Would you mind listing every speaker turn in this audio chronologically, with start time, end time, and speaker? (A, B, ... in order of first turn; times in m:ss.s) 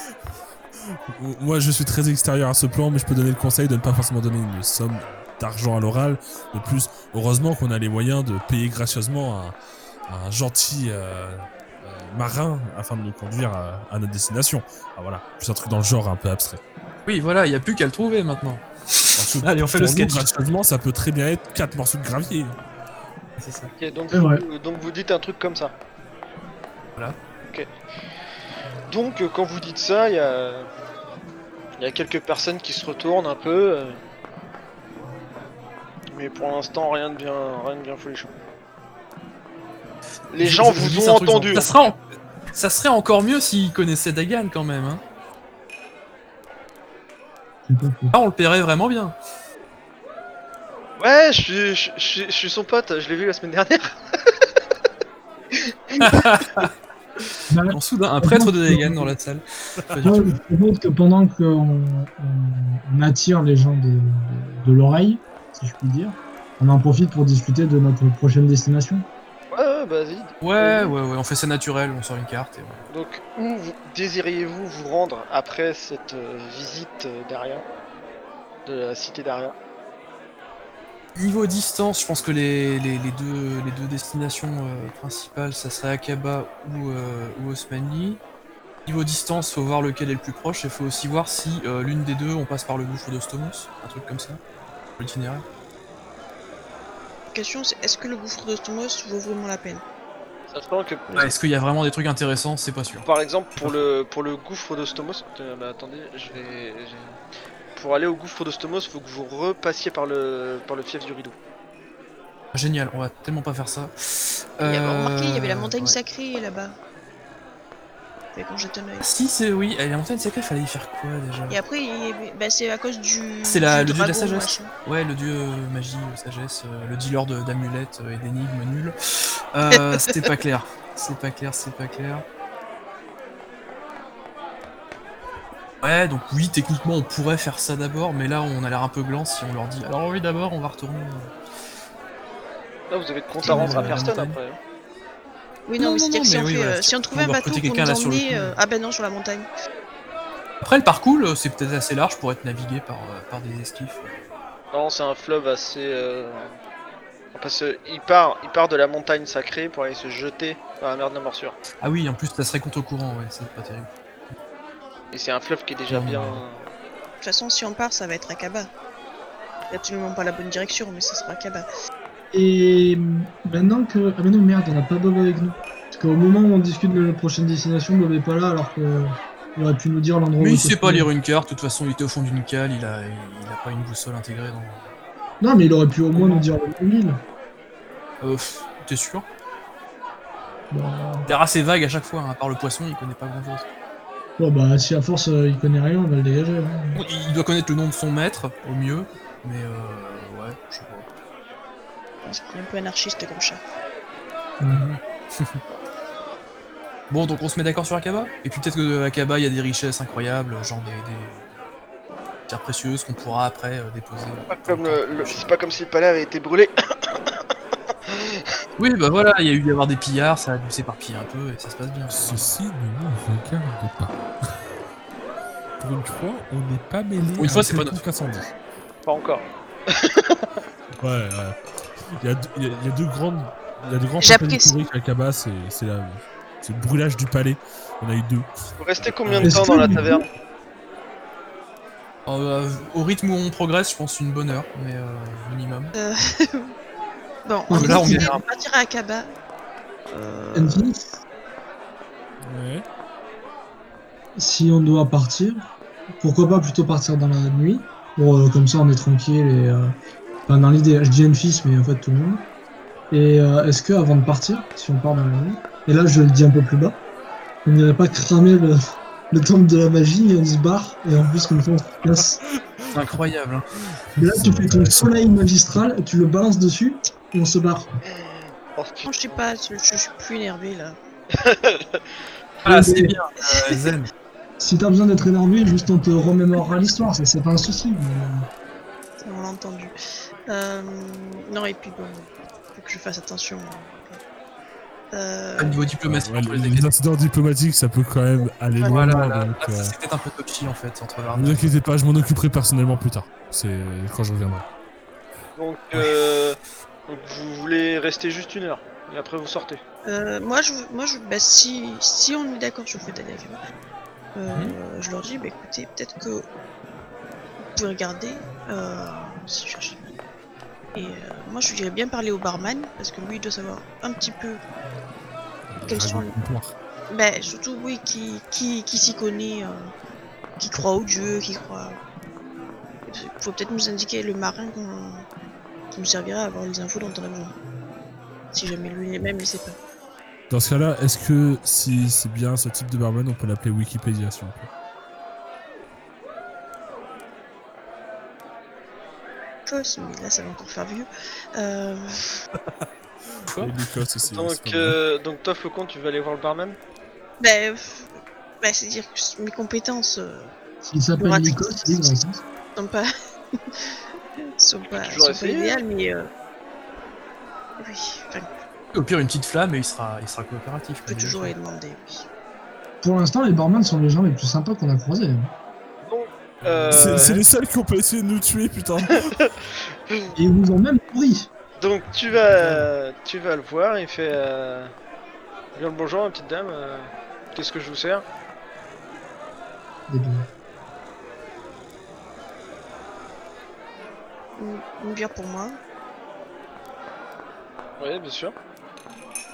0:01.1-0:09.5 A
0:10.1-0:16.6 A
0:17.0-0:20.2 B
0:19.2-0:22.5 A
0:23.4-0:23.7 B
0:23.8-0:25.7 C
0:24.1-0:24.4 D
0:28.9-0:30.7 C
0:31.8-0:34.0 C
0:36.1-0:38.3 C
0:40.3-0:41.7 C
0:40.4-0:42.0 B
0:42.5-0:45.0 B
0:47.6-0:48.1 D
0:48.1-0:49.1 B
0:51.0-0:53.9 C
0:56.0-0:56.7 B
0:57.5-0:59.1 D
0:57.7-1:00.2 B
0:59.9-1:00.3 A
1:00.0-1:09.0 D
1:09.5-1:10.9 C
1:10.4-1:12.9 B
1:12.9-1:17.6 C
1:18.6-1:19.5 C
1:21.1-1:28.2 B
1:28.8-1:34.4 B
1:35.0-1:35.4 B
1:37.3-1:39.8 E
1:40.5-1:41.3 C
1:41.1-1:43.1 B
1:43.0-1:47.2 C
1:47.8-1:51.4 C
1:52.5-1:56.0 B
1:54.6-1:56.7 E
1:58.3-1:59.1 E
1:59.0-2:01.6 B
2:01.5-2:04.7 E
2:03.4-2:09.0 B
2:09.5-2:12.2 B
2:09.7-2:10.3 E
2:15.8-2:21.3 B
2:22.9-2:24.6 C
2:23.4-2:24.4 B
2:23.4-2:24.0 E
2:25.6-2:29.4 E
2:25.8-2:28.5 B
2:30.6-2:34.2 B
2:34.7-2:36.5 C
2:37.3-2:41.6 C
2:41.8-2:43.9 B
2:45.1-2:46.7 C
2:45.9-2:46.4 B
2:47.2-2:48.7 E
2:49.7-2:51.6 E
2:52.3-3:01.1 D
3:00.4-3:04.9 B
3:05.4-3:07.2 D
3:06.1-3:06.4 B
3:08.2-3:09.2 B
3:10.7-3:11.3 D
3:11.3-3:13.6 B
3:14.4-3:17.0 D
3:16.9-3:21.0 B
3:22.2-3:23.6 E
3:24.6-3:24.9 D
3:24.7-3:25.6 B
3:27.1-3:31.4 B
3:32.5-3:35.5 B
3:34.5-3:36.7 C
3:38.8-3:42.5 B
3:42.1-3:44.2 A
3:45.8-3:48.5 A
3:47.4-3:48.0 B
3:49.1-3:50.4 C
3:51.0-3:51.5 A
3:52.2-4:00.0 A
3:54.2-3:54.8 E
3:58.8-4:00.3 C
3:59.4-4:00.2 D
4:02.3-4:05.9 B
4:05.9-4:06.7 E
4:07.4-4:09.3 E
4:07.7-4:08.3 D
4:07.7-4:08.4 B
4:10.1-4:10.9 E
4:10.5-4:11.1 D
4:12.4-4:12.8 A
4:14.4-4:15.7 D
4:16.2-4:19.9 D
4:20.5-4:22.4 D
4:23.1-4:27.0 D
4:27.6-4:32.4 D
4:32.9-4:33.6 B
4:34.2-4:37.9 D
4:34.3-4:34.9 A
4:38.1-4:39.4 C
4:39.0-4:41.0 E
4:41.4-4:42.0 C
4:42.6-4:44.1 B
4:42.6-4:43.1 D
4:43.4-4:43.9 E
4:44.6-4:48.4 D
4:49.2-4:49.9 E
4:50.5-4:54.2 E
4:55.1-4:55.9 E
4:55.6-4:56.9 B
4:56.0-4:59.9 A
4:58.9-5:01.6 B
5:01.3-5:04.6 A
5:05.6-5:09.8 C
5:10.0-5:13.6 E
5:14.3-5:16.4 E
5:14.5-5:14.8 B
5:17.7-5:20.1 E
5:20.9-5:24.6 E
5:25.8-5:26.7 A
5:25.8-5:26.3 E
5:27.1-5:29.9 E
5:30.6-5:32.0 E
5:33.1-5:35.2 E
5:35.9-5:37.5 E
5:38.5-5:39.8 E
5:40.5-5:44.7 A
5:49.6-5:52.2 E
5:53.5-5:53.8 B
5:53.6-5:55.0 A
5:54.2-5:56.8 C
5:57.4-5:58.1 E
5:58.6-6:00.5 E
6:00.8-6:02.4 D
6:01.2-6:03.0 E
6:04.6-6:06.3 E
6:04.9-6:05.8 C
6:07.8-6:08.5 E
6:08.9-6:11.5 B
6:11.1-6:12.2 E
6:13.0-6:15.5 D
6:16.0-6:17.4 C
6:16.6-6:17.3 B
6:16.9-6:19.3 A
6:20.3-6:21.5 D
6:21.8-6:24.9 C
6:25.7-6:28.2 C
6:30.1-6:30.5 D
6:34.6-6:35.8 E
6:38.0-6:38.5 C